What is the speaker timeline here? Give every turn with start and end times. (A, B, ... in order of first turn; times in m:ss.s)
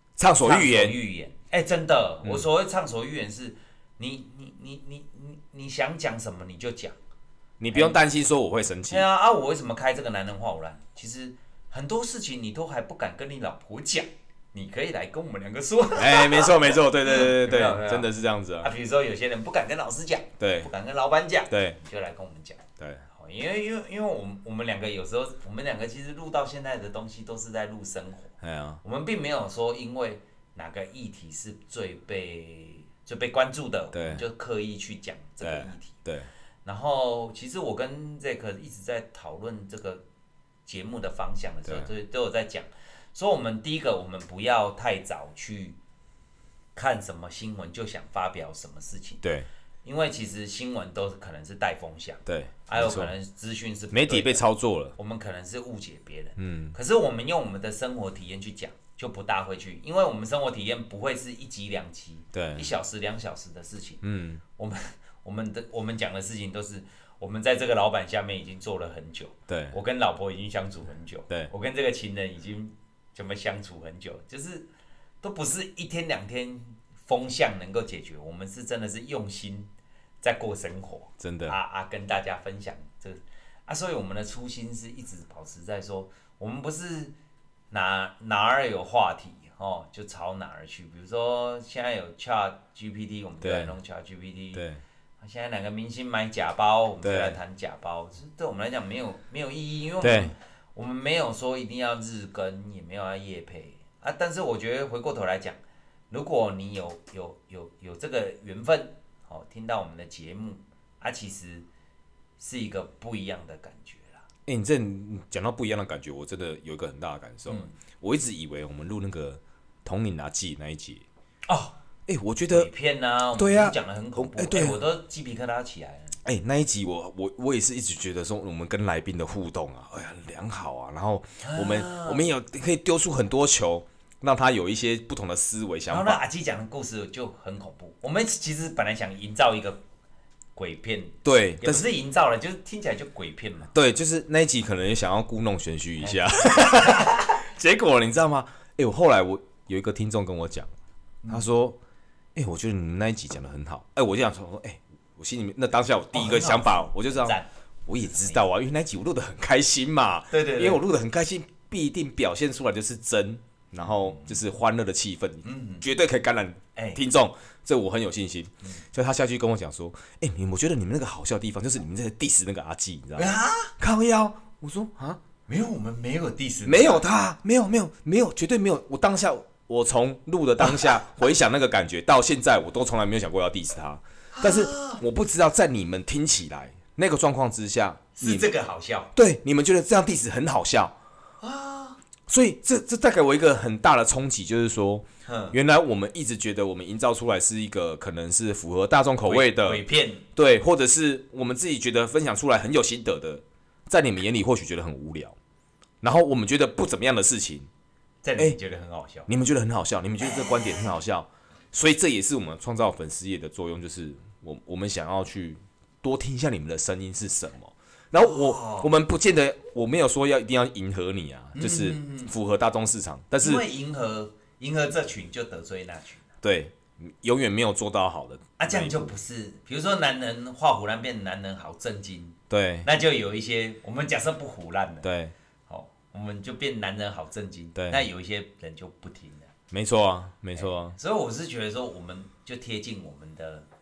0:00.2-0:01.0 A
0:00.4-0:06.9 B
0:07.6-0:09.0 A
0:07.7-0:08.0 B
0:08.9-0:18.1 B
0:16.0-0:18.7 A
0:18.6-0:36.0 B
0:20.4-0:20.7 A
0:21.5-0:21.8 A
0:22.8-0:23.0 A
0:28.4-0:28.8 A
0:33.9-0:34.2 A
0:35.4-0:36.3 A
0:36.6-0:40.0 B
0:40.6-0:45.8 B
0:46.8-0:49.2 B
0:49.2-0:49.5 A
0:49.8-0:54.4 B
0:52.2-0:53.1 A
0:53.9-0:55.0 A
0:55.0-1:04.0 B
0:56.4-0:56.7 A
1:02.3-1:02.7 A
1:04.0-1:04.4 A
1:04.6-1:14.7 B
1:09.5-1:09.8 A
1:15.2-1:19.7 B
1:20.2-1:27.1 B
1:21.2-1:21.6 A
1:27.7-1:34.6 B
1:33.4-1:33.7 A
1:34.5-1:34.8 A
1:35.2-1:45.6 B
1:37.0-1:37.4 A
1:40.0-1:40.3 A
1:46.1-1:51.7 B
1:52.4-1:54.2 B
1:54.4-2:01.0 A
1:57.5-1:57.8 B
2:01.5-2:01.7 B
2:02.1-2:02.7 A
2:02.5-2:06.2 B
2:03.4-2:04.8 A
2:06.2-2:16.2 A
2:11.4-2:12.3 B
2:15.9-2:19.8 B
2:20.6-2:23.7 B
2:21.2-2:21.8 A
2:23.7-2:30.7 A
2:26.0-2:27.4 B
2:31.2-2:31.5 B
2:31.3-2:31.8 A
2:32.3-2:55.2 A
2:36.1-2:37.5 B
2:38.0-2:38.4 B
2:40.3-2:40.8 B
2:43.8-2:44.4 B
2:45.4-2:45.8 B
2:46.8-2:47.0 B
2:53.2-2:53.7 B
2:55.5-2:57.0 B
2:56.6-3:08.5 A
3:00.6-3:01.0 B
3:04.3-3:05.0 B
3:08.2-3:09.1 B
3:09.1-3:10.9 A
3:11.4-3:12.0 B
3:12.3-3:19.8 A
3:15.2-3:15.6 B
3:19.2-3:20.2 B
3:20.3-3:25.4 A
3:26.0-3:27.7 A
3:28.2-3:29.3 B
3:29.3-3:43.6 A
3:38.2-3:38.9 B
3:41.5-3:42.3 B
3:43.4-3:46.2 B
3:46.4-3:49.1 A
3:48.6-3:55.1 B
3:52.5-3:52.9 A
3:55.0-3:55.3 A
3:55.7-3:59.5 B
3:57.7-3:58.0 A
3:59.7-4:01.0 A
4:00.5-4:03.7 B